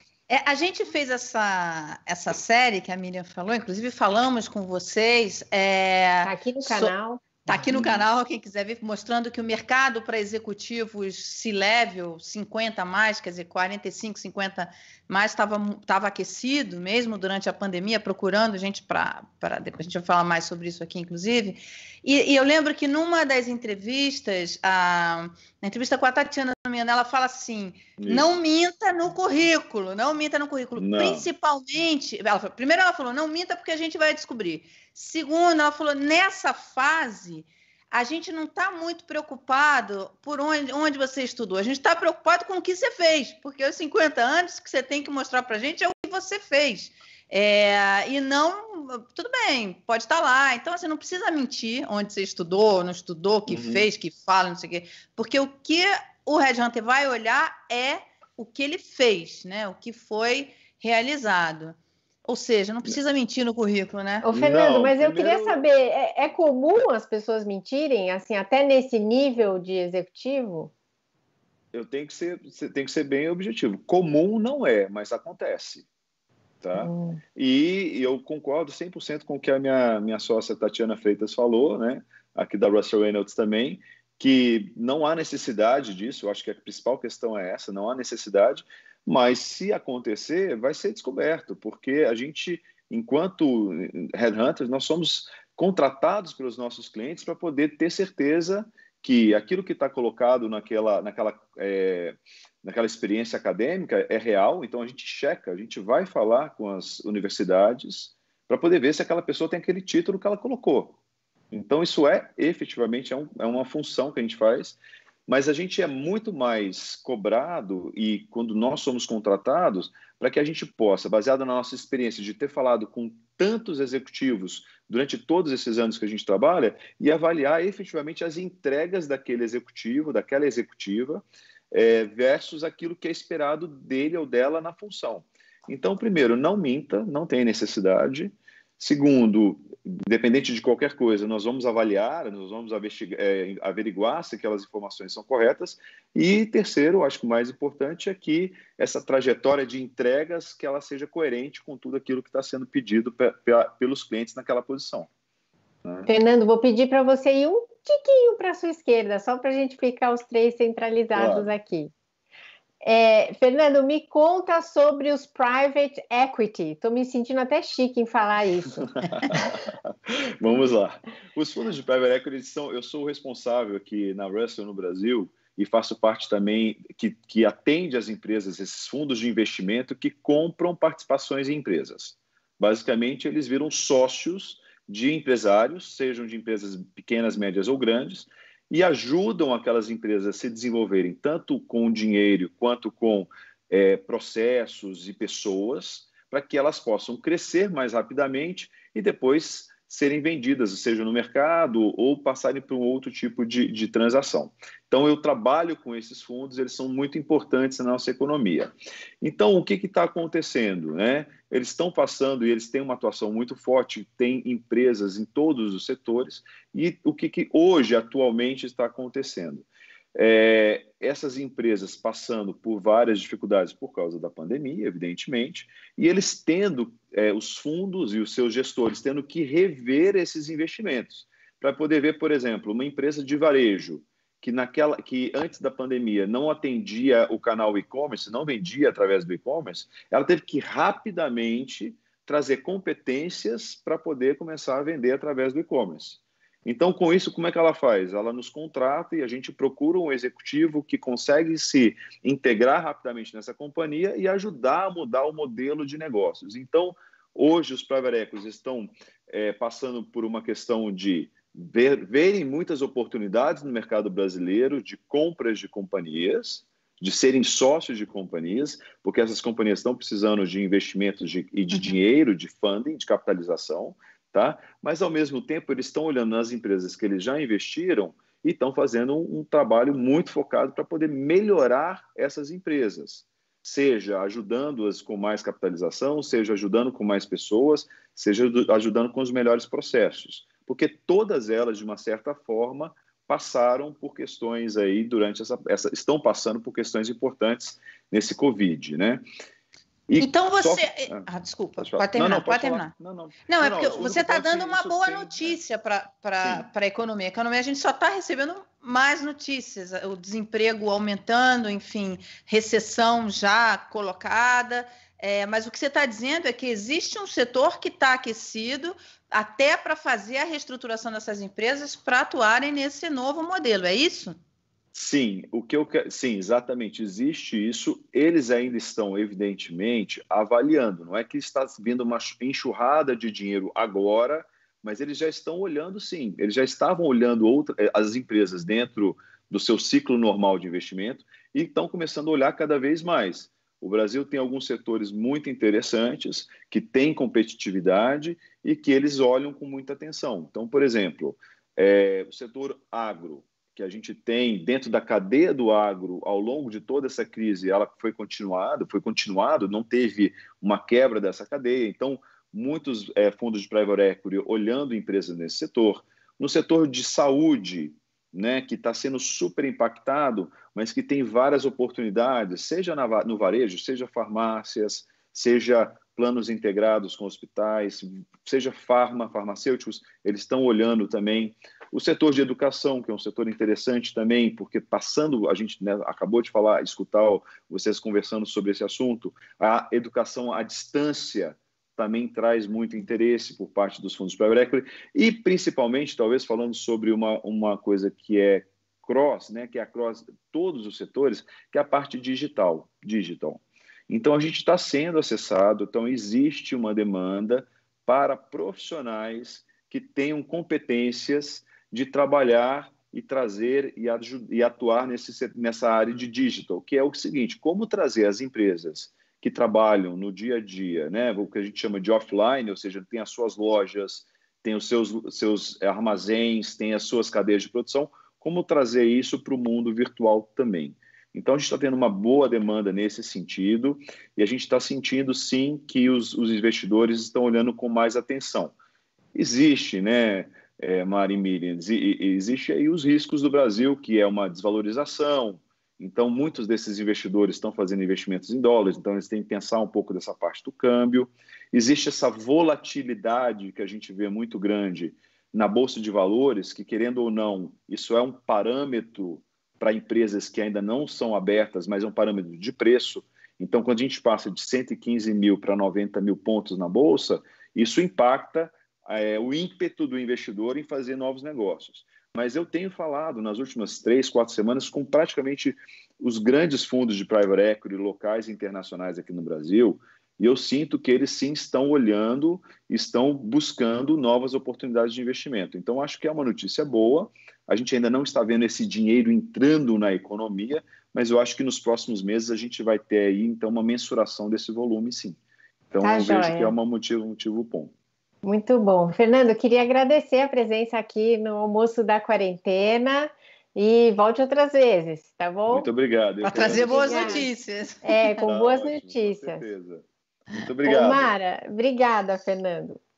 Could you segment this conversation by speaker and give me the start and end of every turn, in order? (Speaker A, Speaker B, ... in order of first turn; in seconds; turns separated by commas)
Speaker A: 0.3-6.9, Speaker B: 6.2-7.5, Speaker A: 7.5-64.2, Speaker C: 7.7-8.0, Speaker C: 28.0-28.3, Speaker C: 30.8-31.3, Speaker C: 53.5-53.8, Speaker B: 64.2-70.7, Speaker C: 64.3-65.6, Speaker C: 71.7-75.8, Speaker C: 76.6-111.0, Speaker B: 76.8-77.2, Speaker C: 111.5-155.1, Speaker B: 156.1-161.9, Speaker C: 161.1-161.5, Speaker B: 162.8-168.8, Speaker C: 169.0-299.2, Speaker A: 271.7-272.0, Speaker C: 300.1-301.2, Speaker A: 300.2-302.9, Speaker C: 301.8-305.6, Speaker A: 303.5-324.4, Speaker C: 324.9-438.7, Speaker C: 439.3-495.4, Speaker C: 495.9-497.9, Speaker B: 496.0-496.7, Speaker B: 498.4-505.9, Speaker C: 505.7-507.4, Speaker A: 506.4-508.4, Speaker B: 506.5-507.5, Speaker B: 508.0-509.6, Speaker C: 508.4-511.3, Speaker B: 510.8-513.0